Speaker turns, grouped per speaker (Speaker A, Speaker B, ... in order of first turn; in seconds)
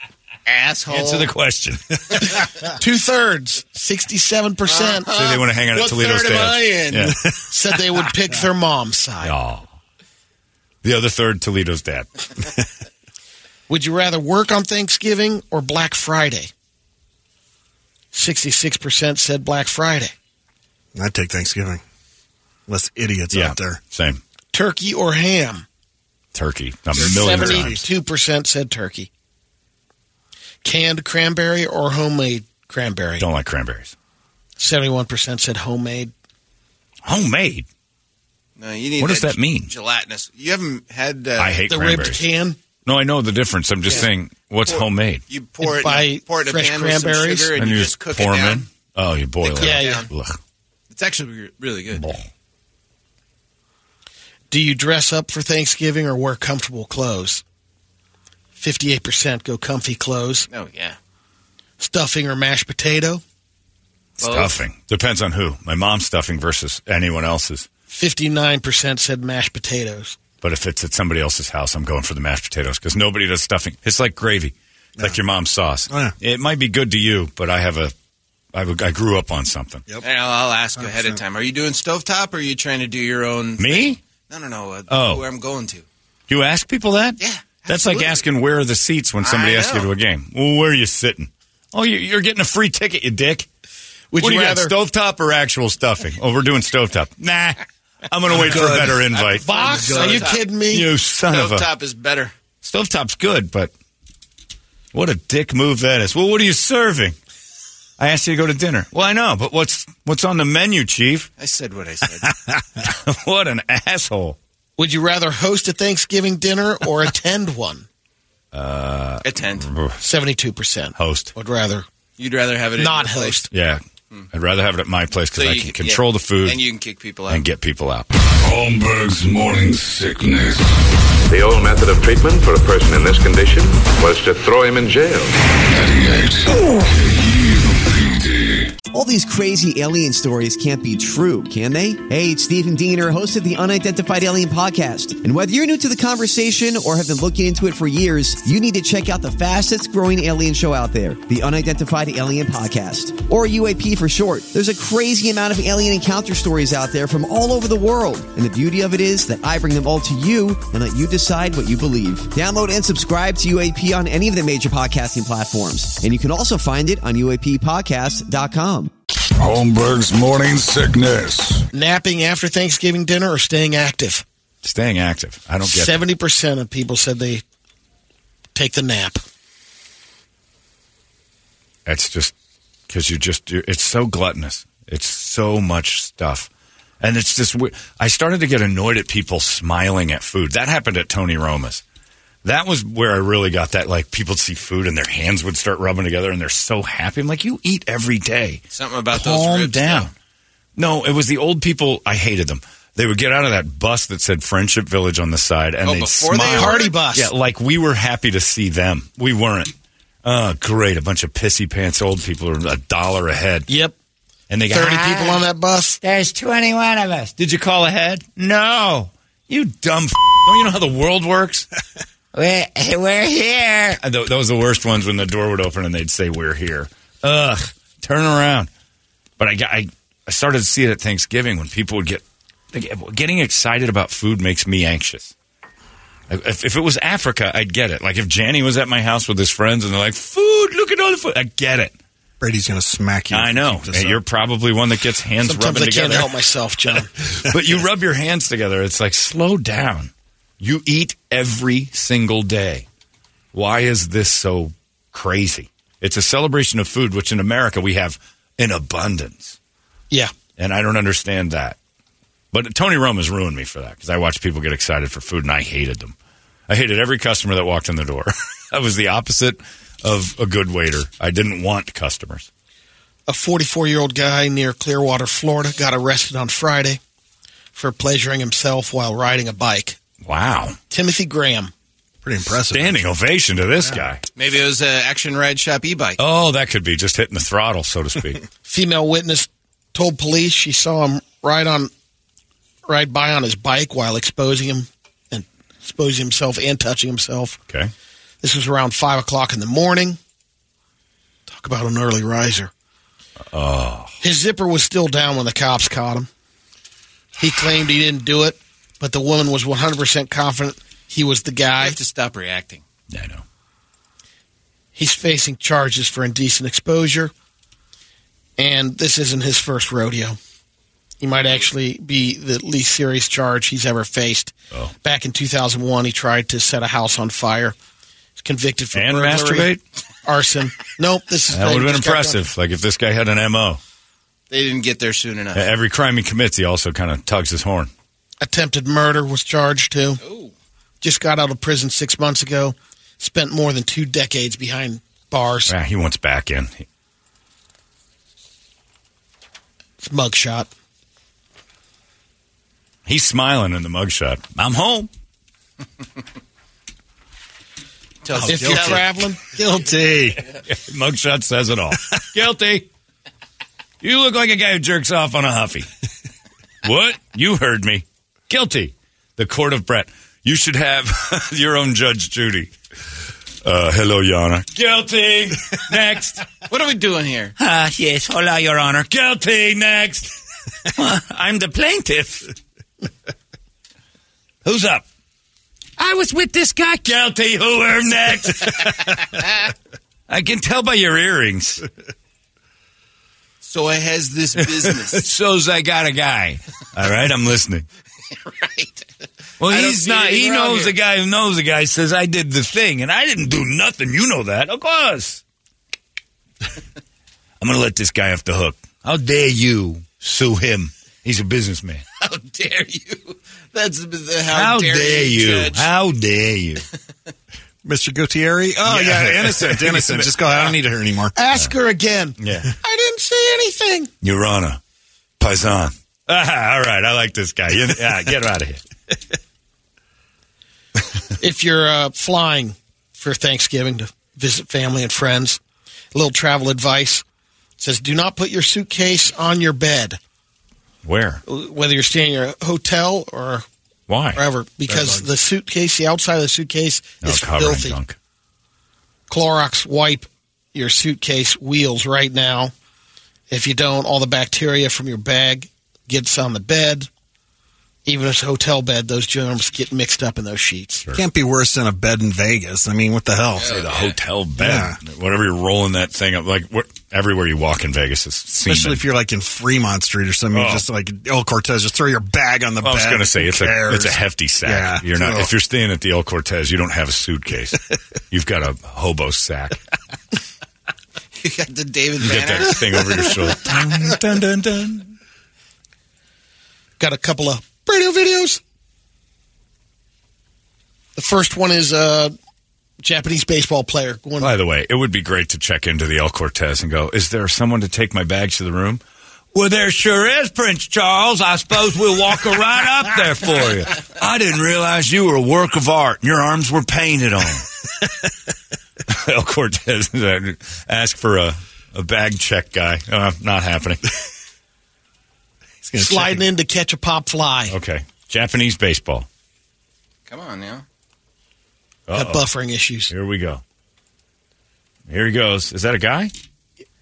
Speaker A: 0.5-1.3, 4.7-7.2, 27.0-27.6, 38.6-41.6, 44.7-48.7, 49.4-50.1, 50.9-52.1, 60.5-61.0, 64.2-64.6, 80.0-85.8, 87.2-88.2, 89.2-89.9, 98.3-100.5, 101.3-102.3, 111.4-112.3, 119.2-119.7, 122.2-123.4, 125.3-127.5, 198.7-200.1, 205.8-206.9, 284.4-286.2, 311.8-312.8, 334.5-335.7, 340.2-340.5, 358.2-359.1, 376.7-377.5, 393.6-395.3, 398.3-399.1, 399.7-400.9, 412.2-415.9, 463.6-464.2, 481.4-483.3, 520.3-520.8
Speaker B: 0.9-2.0, 5.1-7.2, 9.2-9.7, 10.8-12.1, 23.3-24.2, 26.3-27.8, 33.2-33.9, 37.1-37.7, 39.0-39.7, 41.4-42.2, 42.9-45.2, 47.6-50.4, 51.9-52.2, 64.2-67.7, 70.4-77.9, 78.5-79.8, 83.6-84.0, 84.9-85.2, 86.3-93.5, 94.2-99.6, 100.7-101.7, 102.6-103.7, 104.9-107.2, 108.0-111.3, 112.5-114.4, 118.5-120.0, 121.0-121.3, 123.5-126.6, 127.3-128.1, 174.6-176.0, 181.9-182.3, 182.9-186.5, 187.0-191.8, 192.4-200.1, 200.8-209.7, 210.2-213.7, 214.5-215.5, 216.0-221.7, 222.3-228.7, 229.4-232.2, 232.7-235.3, 236.3-242.0, 243.3-246.3, 247.4-252.9, 253.5-259.6, 260.6-261.8, 262.5-266.2, 266.7-272.5, 280.2-280.8, 282.7-284.2, 286.2-288.4, 303.5-304.1, 313.1-313.4, 328.9-329.8, 331.5-333.8, 335.5-337.9, 345.7-346.9, 353.1-355.1, 360.7-362.9, 364.0-365.9, 366.8-372.7, 373.6-376.4, 377.6-382.5, 384.6-385.1, 386.0-389.6, 390.3-391.9, 394.6-397.9, 399.6-405.4, 407.6-412.0, 414.5-416.9, 418.9-420.7, 422.4-422.7, 424.2-424.8, 425.4-428.8, 441.0-441.4, 444.1-444.4, 447.2-448.2, 463.6-469.1, 470.5-470.9, 472.8-477.8, 478.3-479.8, 482.2-485.2, 494.4-499.0, 499.5-507.7, 509.1-514.0, 517.7-519.3, 522.1-522.4, 523.1-523.6, 525.1-526.3
Speaker C: 2.6-5.1, 7.4-9.3, 13.7-16.5, 18.1-20.1, 24.5-25.7, 27.3-29.1, 30.6-33.3, 34.6-36.1, 41.7-42.6, 45.6-47.5, 49.6-50.1, 54.5-57.4, 58.6-60.5, 61.8-63.2, 67.9-70.2, 94.1-94.8, 99.4-100.9, 114.8-117.9, 120.0-121.8, 122.8-123.5, 171.7-174.2, 175.6-177.4, 178.6-179.2, 206.4-207.3, 213.7-213.9, 214.7-216.0, 245.4-247.1, 273.3-277.0, 277.8-280.0, 280.9-281.7, 288.6-291.9, 292.9-297.6, 298.4-300.2, 301.5-302.7, 304.2-306.3, 307.4-312.0, 314.9-317.3, 318.6-320.4, 321.2-327.8, 328.4-329.7, 330.2-332.5, 338.4-340.2, 341.0-345.8, 350.0-350.7, 358.4-359.5, 421.4-424.1, 431.4-435.6, 436.1-437.2, 437.8-440.2, 441.5-443.7, 444.3-448.0, 449.3-452.7, 453.5-457.1, 458.1-461.1, 487.0-488.6, 491.2-492.3, 493.0-494.5, 516.0-517.8, 522.1-523.1
Speaker D: 20.9-21.8, 22.7-23.8, 27.1-27.8, 75.9-76.2, 98.3-99.0, 99.7-100.2, 242.4-244.2, 282.2-283.1, 358.4-360.4, 417.8-421.4, 444.9-445.2, 461.1-463.8, 464.6-465.0, 468.6-475.6, 515.8-516.4
Speaker E: 128.4-130.8, 135.7-138.7, 169.4-171.6
Speaker F: 131.3-135.3
Speaker G: 138.9-168.9